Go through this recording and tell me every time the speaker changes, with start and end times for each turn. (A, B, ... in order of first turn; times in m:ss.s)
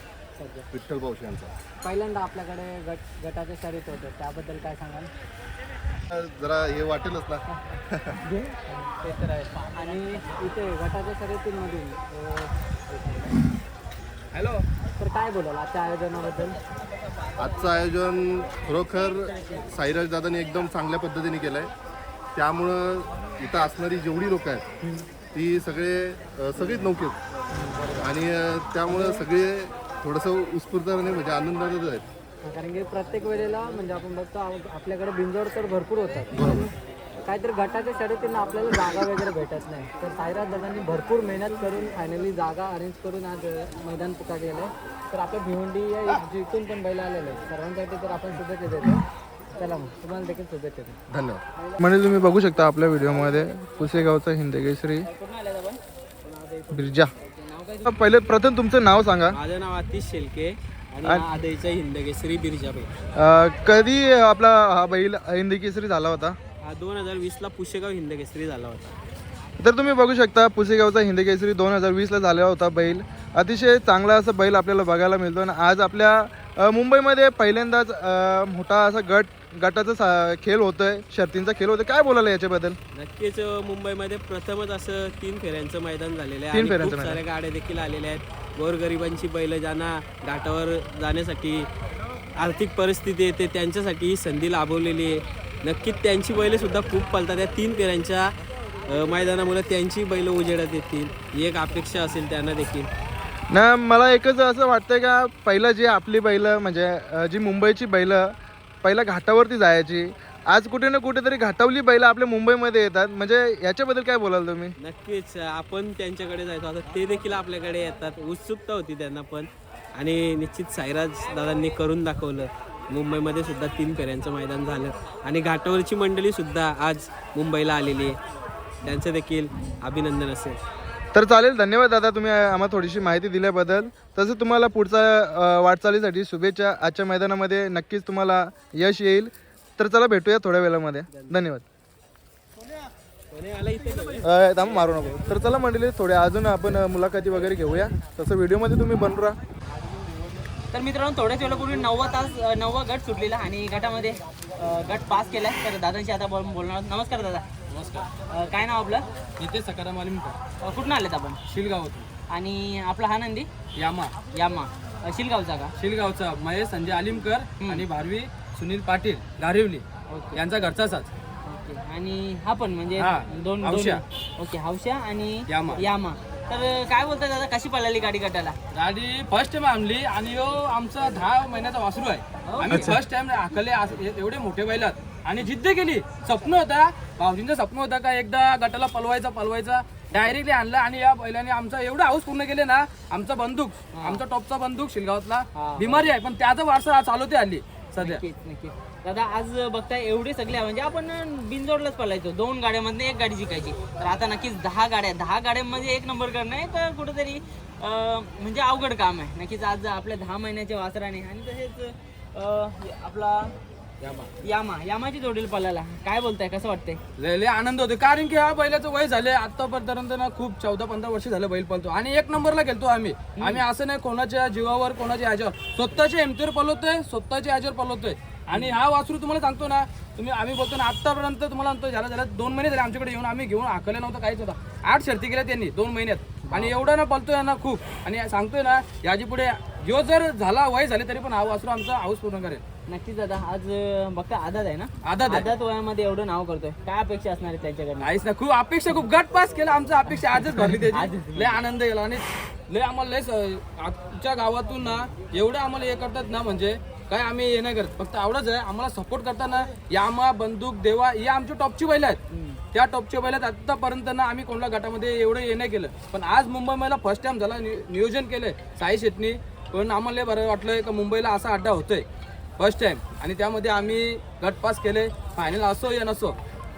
0:00.4-0:00.7 A
0:00.7-0:01.5 B
0:01.8-0:05.1 A
0:06.1-0:07.4 B
0:08.3-0:13.4 A
0:14.3-0:14.6 C
0:15.0-0:16.6 A
0:17.4-0:21.7 B
0:22.4-0:24.7 B
0:25.3-0:27.2 B
0:27.6-0:27.9 A
0:27.9-0:32.0 B
0:28.9-0:29.2 A
0:32.4-0:36.7 A
0:36.4-0:36.6 B
0:37.2-0:49.0 A
0:49.6-0:51.0 A
0:51.1-0:51.4 B
0:51.8-0:55.1 D
0:55.1-0:56.7 E
0:56.7-0:57.1 D
0:57.2-0:57.9 E
0:57.8-0:59.4 D
0:59.3-1:02.9 F
1:03.2-1:06.4 D
1:06.6-1:09.0 F
1:09.6-1:22.8 D
1:22.9-1:31.7 F
1:26.5-1:27.2 D
1:32.4-1:38.3 F
1:38.9-1:42.9 F
1:43.5-1:54.8 D
1:54.8-2:08.2 F
2:08.8-2:10.6 F
2:11.1-2:21.6 D
2:23.3-2:24.2 F
2:24.2-2:29.4 D
2:30.7-2:37.5 E
2:37.7-2:38.1 C
2:38.3-2:39.1 E
2:39.4-2:40.4 C
2:40.6-2:41.4 E
2:41.5-2:42.1 C
2:42.3-2:43.5 E
2:43.8-2:44.1 C
2:44.3-2:45.7 E
2:45.8-2:51.1 C
2:50.1-2:50.4 E
2:51.4-2:58.6 E
2:53.0-2:54.0 C
2:55.5-2:55.8 C
2:58.7-3:18.2 C
3:02.5-3:02.8 E
3:02.7-3:03.0 D
3:14.0-3:14.2 E
3:15.6-3:16.0 E
3:18.0-3:33.5 E
3:34.4-3:37.0 E
3:37.2-4:02.6 C
3:43.4-3:43.6 E
3:56.5-3:56.7 E
4:02.9-4:08.1 E
4:05.0-4:05.5 C
4:08.0-4:32.0 C
4:10.9-4:11.6 E
4:32.6-4:36.4 C